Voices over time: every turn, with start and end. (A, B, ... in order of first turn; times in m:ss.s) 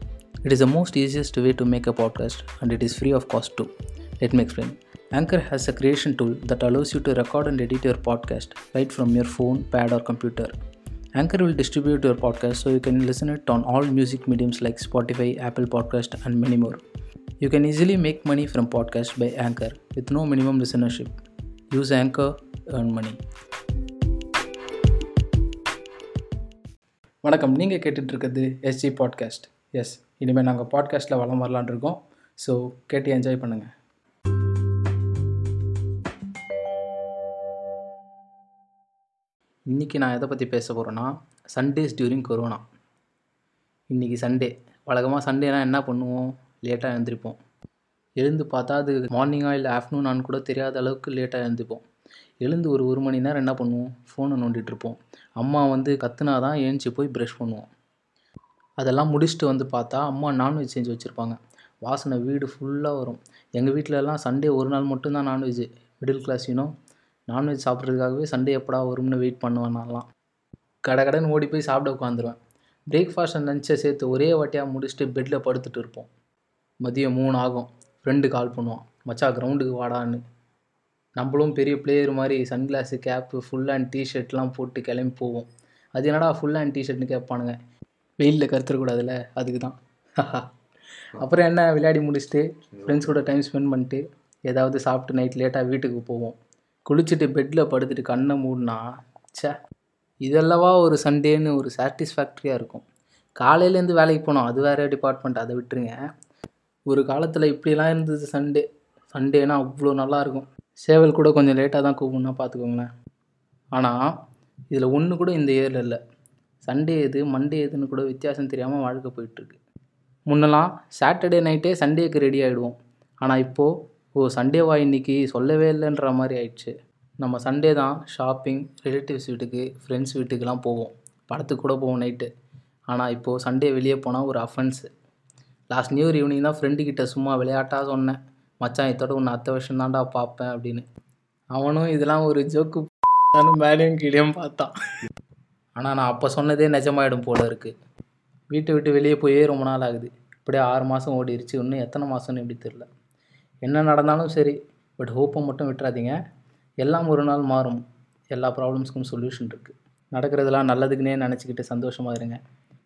0:00.4-0:03.7 A
0:04.2-0:10.5 A
0:11.2-0:16.8 A
0:17.4-0:21.1 A
0:21.7-0:23.2 A
0:27.2-0:33.7 A
0:39.7-0:42.6 A
0:43.9-0:47.4 A
0:48.2-0:51.8 A
0:52.4-0:57.7 A
0:58.8-1:06.7 A
1:07.3-1:10.1 A
1:10.8-1:16.1 A
1:16.8-1:20.2 A
1:21.2-1:27.6 A
1:28.2-1:30.5 A
1:31.2-1:38.8 A
1:40.2-1:42.8 A
1:43.4-1:46.0 A
1:46.9-1:52.9 A
1:54.7-1:56.0 A
1:56.6-1:59.6 A
2:00.3-2:12.3 A
2:12.9-2:14.9 A
2:15.7-2:20.9 A
2:21.6-2:24.7 A
2:25.8-2:27.7 A
2:28.5-2:32.9 A
2:33.6-2:36.2 A
2:36.8-2:42.4 A